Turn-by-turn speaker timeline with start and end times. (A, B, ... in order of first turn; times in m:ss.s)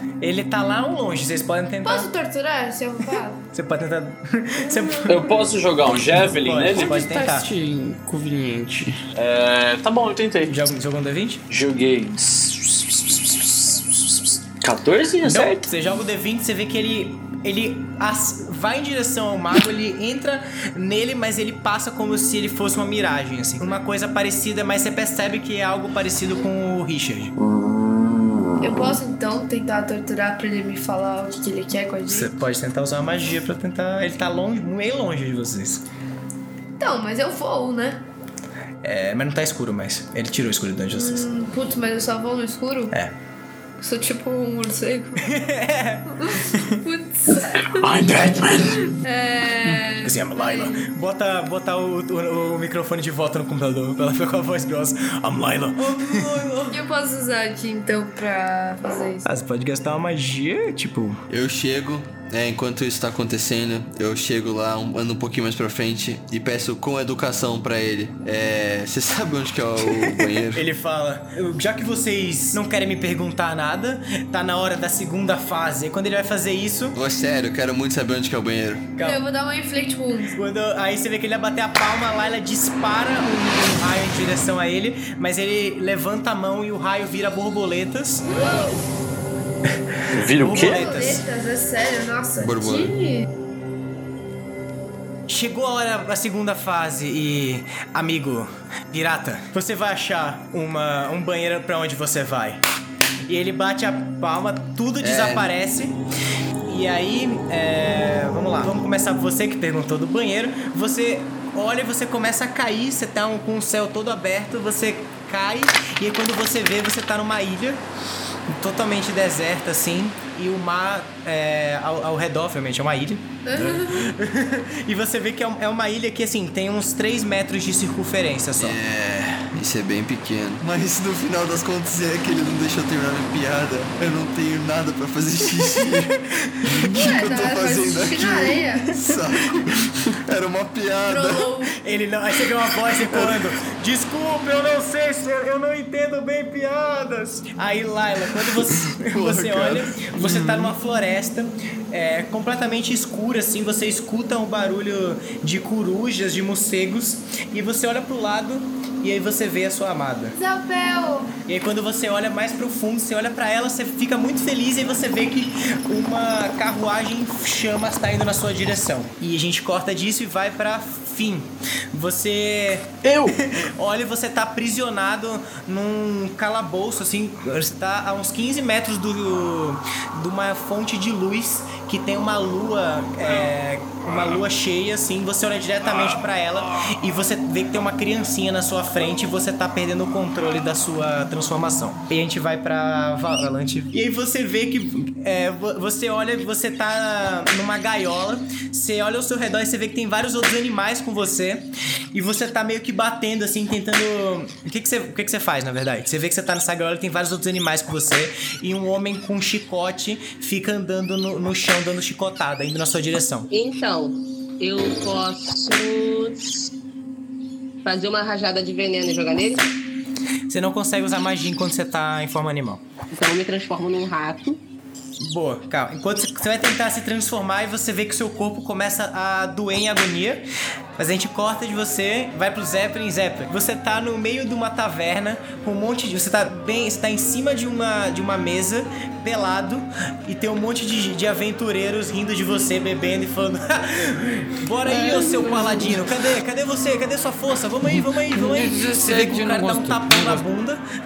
0:00.2-0:02.1 A
0:01.8-0:03.4 B
0:03.5-0:07.5 A
0:04.6-0:05.3 B
0:05.1-0:07.0 C
0:06.7-0:09.0 D
0:09.1-0:10.6 C
0:10.4-0:11.4 A
0:11.5-0:15.7 C
0:15.2-0:27.3 A
0:27.4-0:29.0 C
0:28.6-0:32.3 B
0:32.1-0:35.8 A
0:36.8-0:38.0 B
0:38.8-0:41.3 A
0:40.9-0:43.0 B
0:43.8-0:45.5 B
0:45.2-0:46.8 A
0:46.2-0:47.9 B
0:47.3-0:48.9 C
0:48.8-0:50.9 B
0:50.0-0:56.7 A
0:55.8-0:59.3 B
0:59.2-1:01.2 A
1:01.3-1:10.7 E
1:10.0-1:17.0 A
1:16.9-1:18.9 E
1:19.0-1:19.2 A
1:19.0-1:20.4 B
1:20.3-1:28.6 A
1:28.4-1:28.7 B
1:30.1-1:30.8 C
1:30.4-1:31.2 A
1:30.5-1:33.2 B
1:32.4-1:33.0 E
1:35.3-1:42.6 A
1:43.3-1:46.0 A
1:45.0-1:45.5 E
1:46.7-1:57.8 A
1:58.5-2:08.8 A
2:03.4-2:04.1 B
2:08.6-2:16.1 E
2:16.6-2:21.5 E
2:16.9-2:19.1 B
2:21.1-2:21.8 B
2:21.8-2:40.4 A
2:23.0-2:23.4 E
2:28.4-2:30.7 E
2:40.3-2:41.3 B
2:41.5-3:33.5 A
2:53.0-2:53.4 C
3:33.5-3:36.7 F
3:37.8-3:39.7 F
3:40.5-3:42.8 A
3:43.1-3:44.6 F
3:45.2-3:50.4 A
3:51.0-4:10.8 A
4:05.0-4:05.9 D
4:07.9-4:10.5 D